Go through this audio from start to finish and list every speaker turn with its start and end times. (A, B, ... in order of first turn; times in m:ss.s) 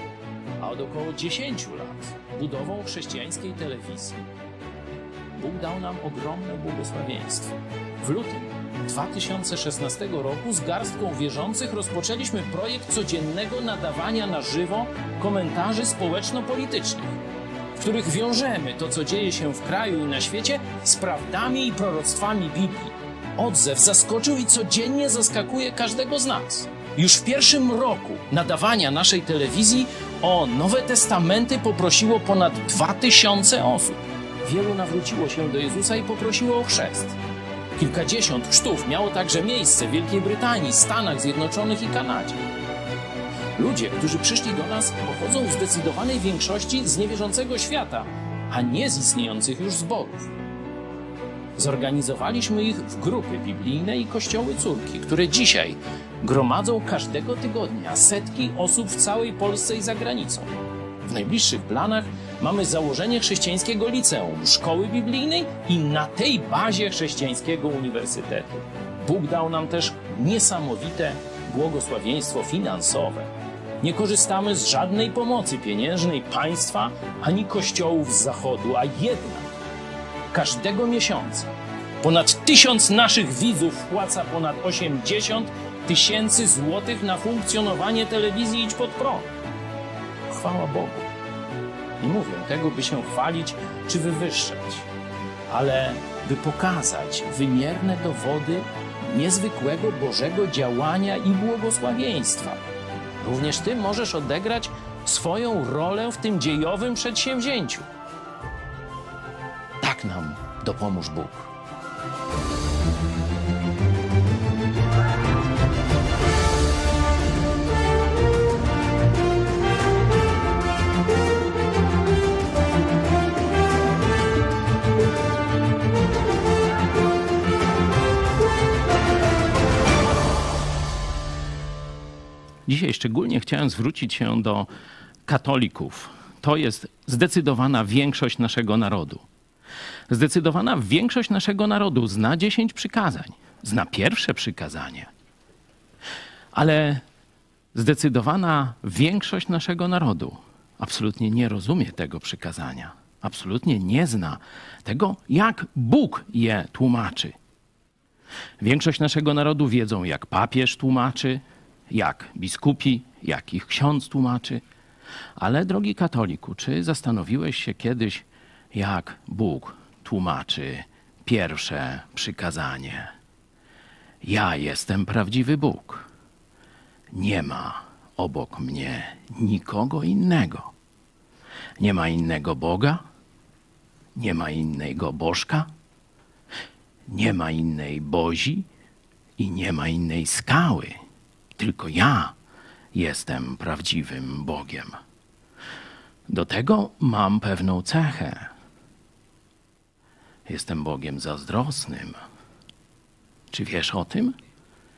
0:00.6-0:04.2 A
0:05.4-0:17.2 A
0:17.8-0:37.2 A
0:37.8-0:42.4 A
0:43.6-0:50.3 A
0:51.6-1:00.5 A
1:01.1-1:13.3 A
1:13.8-1:19.5 A
1:20.3-1:21.5 A
1:22.0-1:29.3 A
1:30.3-1:31.1 A
1:32.0-1:34.9 A
1:35.5-1:42.6 A
1:43.2-1:47.9 A
1:49.8-1:51.5 A
2:12.7-2:14.7 A
2:15.3-2:19.2 A
2:20.1-2:25.1 A
2:26.5-2:27.0 A
2:27.7-2:37.4 A
2:38.6-2:44.6 A
2:45.4-2:53.1 A
2:54.2-2:56.1 A
2:57.1-3:00.7 A
3:01.8-3:03.0 A
3:04.2-3:05.7 A
3:07.1-3:08.7 A
3:09.4-3:11.0 A
3:11.6-3:12.3 A
3:12.9-3:15.0 A
3:16.3-3:18.5 A
3:20.5-3:22.2 A
3:23.5-3:24.4 A